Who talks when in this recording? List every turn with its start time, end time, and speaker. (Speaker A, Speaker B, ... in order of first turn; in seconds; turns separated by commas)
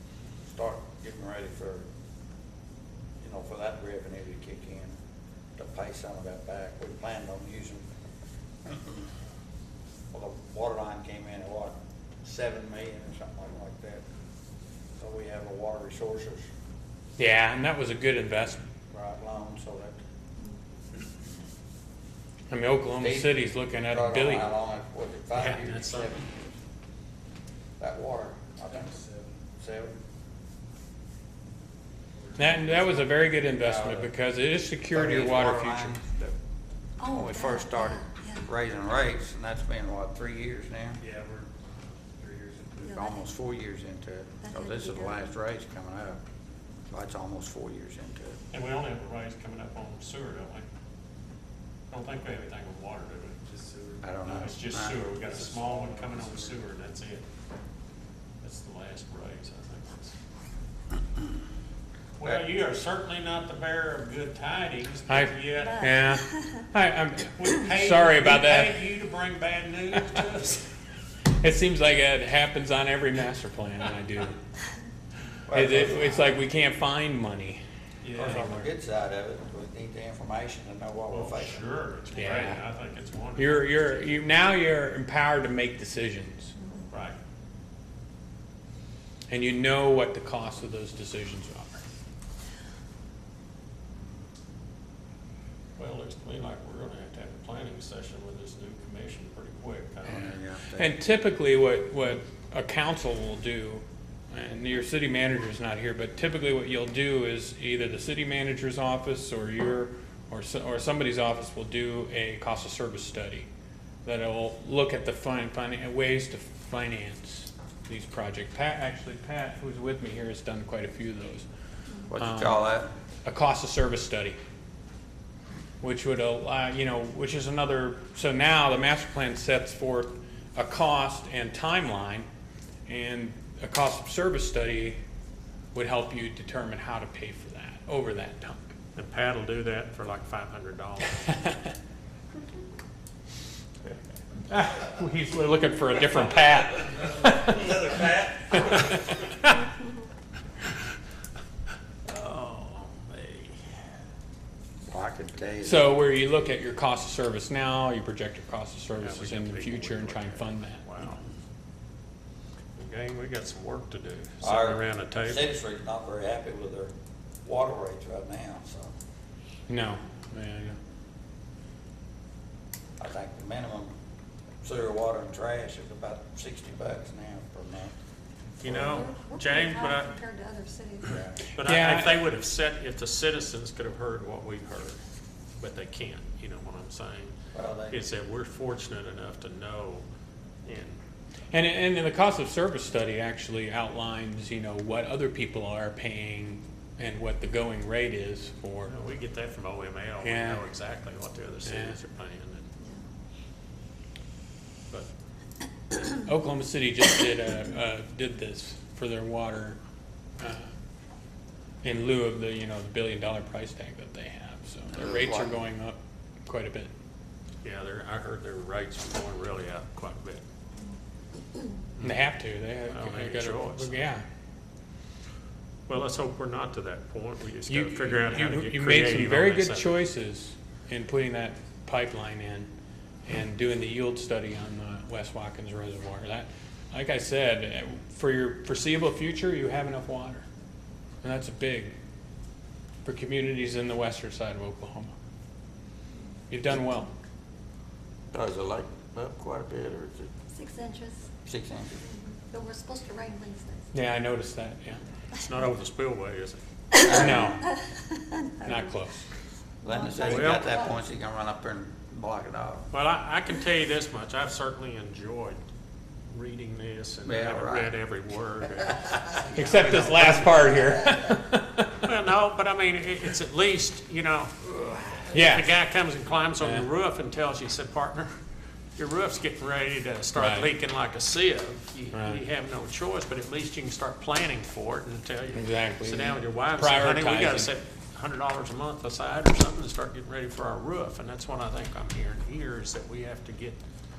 Speaker A: 0.5-1.9, Speaker A: 3.2-5.0, Speaker A: 5.6-7.8, Speaker A: 8.7-9.0, Speaker A: 10.1-14.0, Speaker A: 15.0-16.5, Speaker B: 17.2-18.6, Speaker A: 18.9-20.0, Speaker B: 22.5-24.5, Speaker A: 23.0-26.5, Speaker C: 25.3-26.2, Speaker A: 27.8-29.0, Speaker D: 28.7-29.3, Speaker A: 29.6-29.9, Speaker D: 32.2-33.1, Speaker B: 32.4-36.0, Speaker A: 33.5-34.1, Speaker A: 34.9-36.3, Speaker E: 37.0-38.5, Speaker A: 37.1-41.0, Speaker D: 41.0-41.4, Speaker D: 42.2-42.7, Speaker A: 42.8-46.2, Speaker E: 42.8-43.2, Speaker E: 44.4-45.3, Speaker A: 46.9-48.4, Speaker C: 48.5-50.6, Speaker C: 51.9-53.4, Speaker D: 53.5-54.5, Speaker A: 54.0-55.0, Speaker C: 54.3-57.2, Speaker D: 55.0-56.6, Speaker C: 58.4-60.1, Speaker C: 62.2-65.9, Speaker B: 65.1-68.8, Speaker E: 65.7-66.6, Speaker C: 67.3-70.7, Speaker B: 71.4-74.4, Speaker A: 75.5-76.4, Speaker B: 75.5-77.6, Speaker C: 78.0-78.7, Speaker A: 78.1-81.7, Speaker C: 81.1-83.7, Speaker B: 82.2-82.6, Speaker B: 83.3-86.5, Speaker E: 86.6-86.9, Speaker C: 86.9-87.2, Speaker B: 89.3-91.8, Speaker C: 95.8-100.4, Speaker A: 100.0-101.0, Speaker B: 100.7-113.5, Speaker B: 114.0-121.5, Speaker A: 122.1-122.9, Speaker B: 122.2-122.6, Speaker B: 123.2-124.4, Speaker B: 125.8-132.3, Speaker B: 132.9-135.0, Speaker B: 135.7-138.7, Speaker C: 138.9-141.3, Speaker B: 141.3-141.6, Speaker B: 144.5-147.8, Speaker A: 147.7-148.2, Speaker B: 148.6-149.4, Speaker C: 152.1-153.6, Speaker A: 154.8-156.0, Speaker B: 155.6-160.8, Speaker C: 159.0-161.2, Speaker C: 162.8-165.5, Speaker A: 164.4-166.9, Speaker A: 167.4-168.9, Speaker B: 169.7-170.8, Speaker A: 173.0-173.9, Speaker A: 174.6-177.9, Speaker C: 178.6-180.2, Speaker A: 178.7-179.0, Speaker E: 178.7-181.2, Speaker A: 181.0-181.4, Speaker C: 181.5-185.0, Speaker B: 181.6-182.2, Speaker C: 185.6-187.3, Speaker A: 187.5-188.0, Speaker C: 187.9-190.0, Speaker C: 190.6-191.0, Speaker B: 191.5-198.9, Speaker C: 198.8-202.7, Speaker B: 200.2-200.6, Speaker B: 201.6-202.0, Speaker B: 206.2-209.8, Speaker B: 210.4-210.7, Speaker B: 211.8-216.9, Speaker A: 214.9-215.6, Speaker C: 217.6-220.4, Speaker B: 222.0-224.2, Speaker C: 222.9-224.0, Speaker C: 225.9-230.1, Speaker B: 227.7-232.7, Speaker B: 233.2-240.4, Speaker B: 241.2-241.9, Speaker B: 243.0-245.1, Speaker B: 246.5-247.1, Speaker A: 248.3-250.3, Speaker E: 250.5-251.3, Speaker A: 251.4-252.0, Speaker E: 252.1-253.9, Speaker B: 253.9-255.0, Speaker C: 255.4-256.6, Speaker A: 256.9-257.6, Speaker B: 257.1-257.7, Speaker E: 257.2-258.8, Speaker B: 258.6-259.2, Speaker A: 259.8-262.9, Speaker E: 259.9-261.0, Speaker C: 260.3-260.6, Speaker C: 262.9-265.6, Speaker C: 266.3-270.6, Speaker A: 267.2-267.9, Speaker B: 269.5-271.9, Speaker C: 272.0-278.3, Speaker B: 275.3-275.7, Speaker C: 278.9-293.8, Speaker B: 280.3-280.7, Speaker B: 282.1-282.4, Speaker B: 285.5-287.7